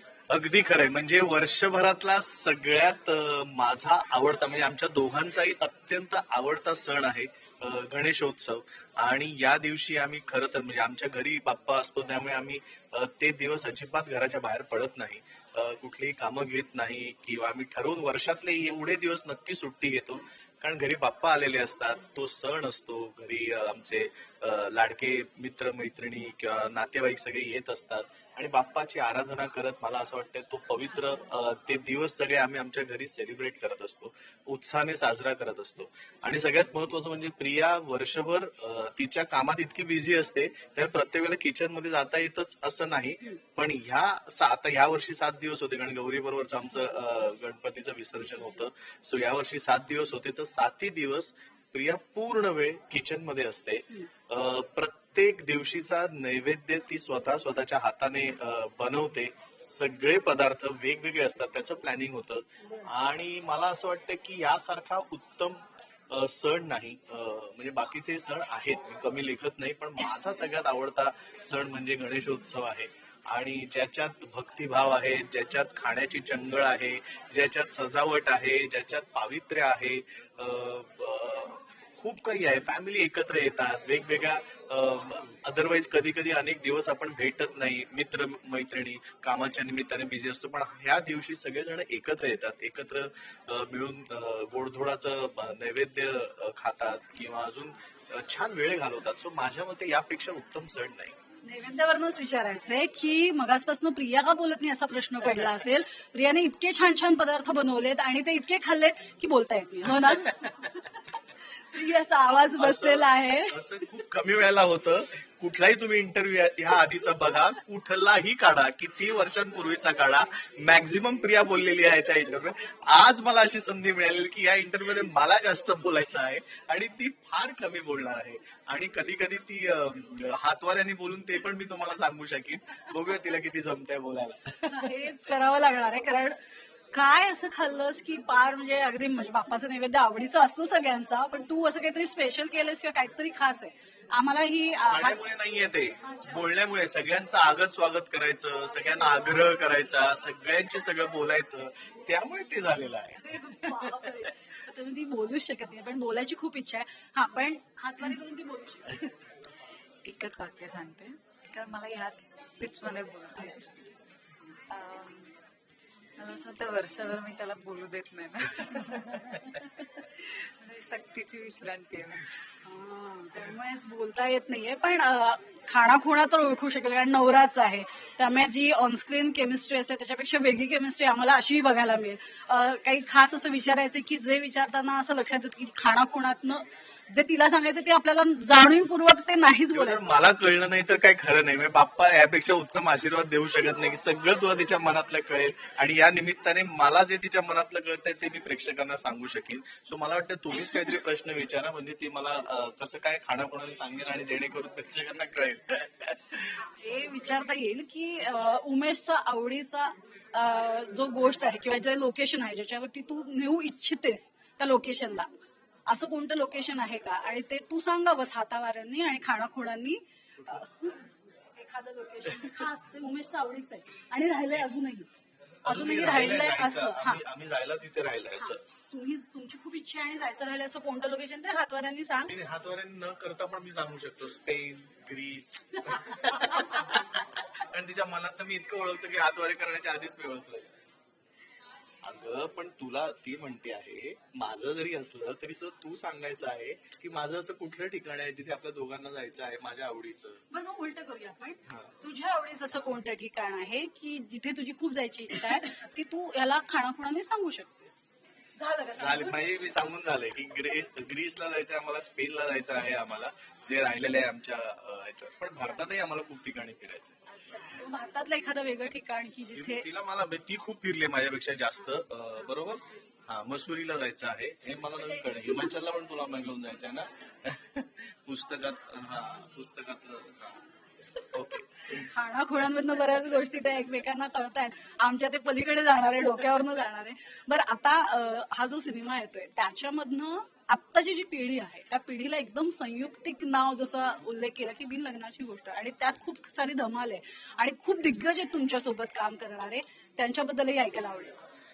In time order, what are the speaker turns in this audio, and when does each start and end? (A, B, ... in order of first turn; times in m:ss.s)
0:00.3-1:41.2 A
1:41.4-1:50.7 B
1:50.0-1:50.5 A
1:51.7-1:53.6 B
1:52.6-2:15.0 A
2:14.7-2:16.4 B
2:16.9-2:25.2 B
2:24.9-2:34.3 A
2:26.0-2:26.4 B
2:33.2-2:39.0 B
2:40.0-2:43.9 C
2:44.7-2:45.4 C
2:46.2-2:52.4 C
2:52.6-3:10.1 B
3:09.7-3:26.6 A
3:26.6-3:35.3 B
3:35.9-3:45.1 B
3:45.6-3:47.2 B
3:45.6-3:48.6 A
3:48.4-3:52.3 B
3:52.3-4:00.7 A
4:02.0-4:10.4 A
4:10.5-4:17.9 B
4:18.6-4:19.4 B
4:19.0-4:27.2 A
4:27.5-4:29.8 B
4:29.6-4:40.6 A
4:41.3-4:42.0 A
4:41.9-5:01.4 B